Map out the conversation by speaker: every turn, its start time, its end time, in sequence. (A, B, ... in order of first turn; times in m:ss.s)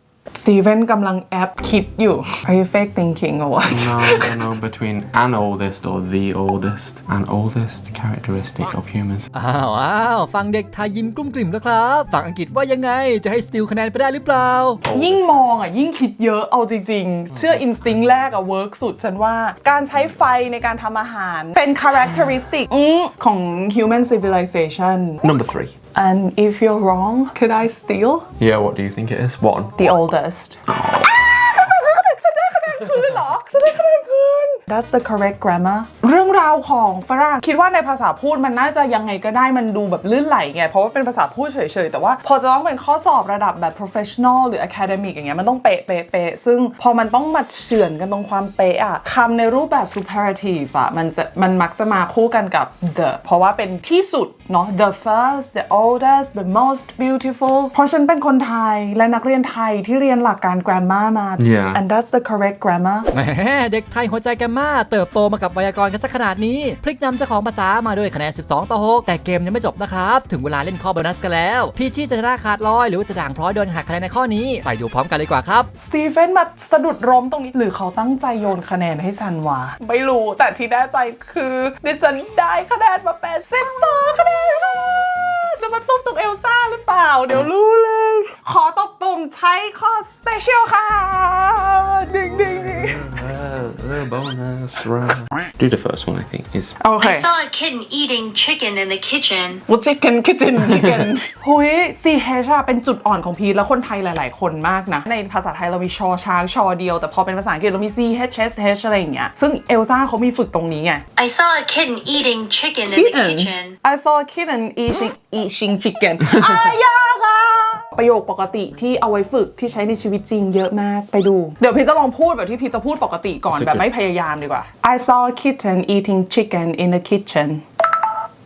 0:00.3-0:04.3 A
0:03.7-0:09.3 B
0:09.3-0:14.8 C
0:14.8-0:15.6 B
0:14.9-0:25.2 A
0:17.3-0:17.6 B
0:25.2-0:25.8 B
0:25.9-0:28.3 A
0:28.4-0:29.7 B
0:29.8-1:03.1 A
0:30.7-0:31.1 B
1:01.4-1:01.8 B
1:03.1-1:15.7 C
1:15.7-1:33.1 A
1:32.9-1:36.8 B
1:36.8-1:37.3 A
1:37.0-1:39.6 D
1:39.7-1:51.0 A
1:51.2-1:53.7 D
1:52.9-2:07.6 A
1:56.2-1:56.7 B
2:03.5-2:03.9 B